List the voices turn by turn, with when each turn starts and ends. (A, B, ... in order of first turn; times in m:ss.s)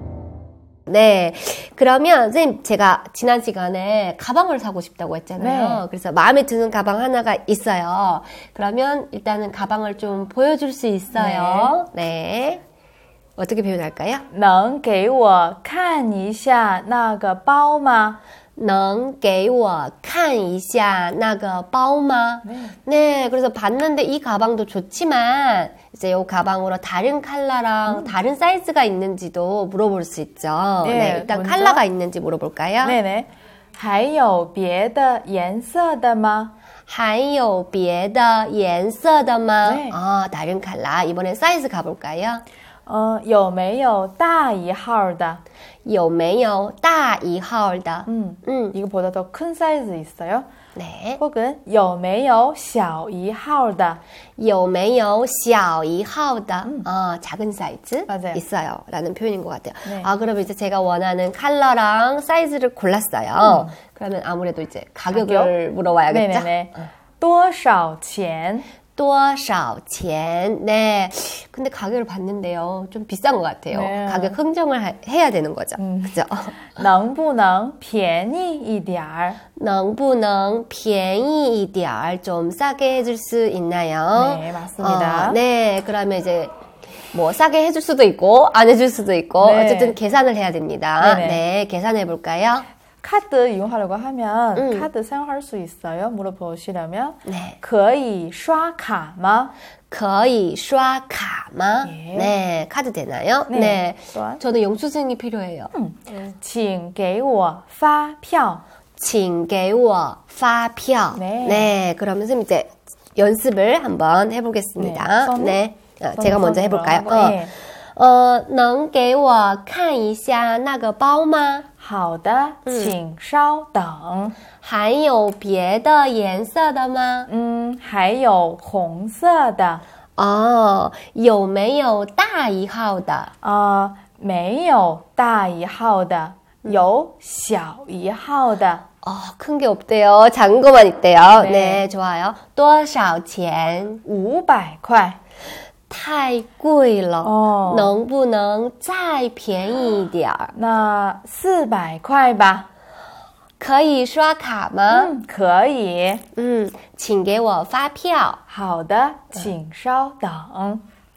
0:00.9-0:12.6 A
0:05.4-0:05.8 B
0:11.1-0:11.7 B
0:13.4-0:14.2 A
0:14.3-0:18.2 B
0:18.6-0:33.0 A
0:22.4-0:22.7 B
0:27.9-0:28.1 B
0:30.8-0:31.8 B
0:32.8-0:36.5 B
0:36.9-0:42.4 A
0:39.6-0:40.0 B
0:42.8-0:45.4 B
0:45.8-0:48.8 A
0:48.0-0:50.4 B
0:50.8-0:51.2 A
0:51.2-0:54.0 B
0:54.4-1:06.5 A
0:58.1-0:58.4 B
1:03.4-1:03.7 B
1:05.1-1:05.5 B
1:06.1-1:08.7 B
1:09.0-1:16.7 A
1:13.7-1:14.4 B
1:15.8-1:19.4 B
1:19.6-1:26.5 A
1:24.1-1:25.4 B
1:27.1-1:32.7 A
1:29.4-1:30.0 B
1:31.0-1:31.4 B
1:33.0-1:39.5 B
1:34.6-1:34.9 A
1:37.2-1:37.6 A
1:39.9-1:45.7 A
1:41.8-1:42.3 B
1:43.5-1:44.4 B
1:45.7-1:48.6 B
1:49.0-2:01.6 A
1:51.1-1:51.7 B
1:54.8-1:55.6 B
1:56.2-1:57.5 B
2:01.8-2:04.4 B
2:02.6-2:02.9 A
2:04.6-2:07.3 A
2:07.3-2:09.8 B
2:10.2-2:13.3 A
2:13.4-2:18.8 B
2:19.0-2:24.0 A
2:21.3-2:21.8 B
2:24.0-2:25.2 B
2:25.9-2:30.5 A
2:27.2-2:27.9 B
2:30.5-2:32.7 B
2:33.6-2:35.1 A
2:34.9-2:36.2 B
2:36.3-2:38.4 A
2:38.5-2:40.8 B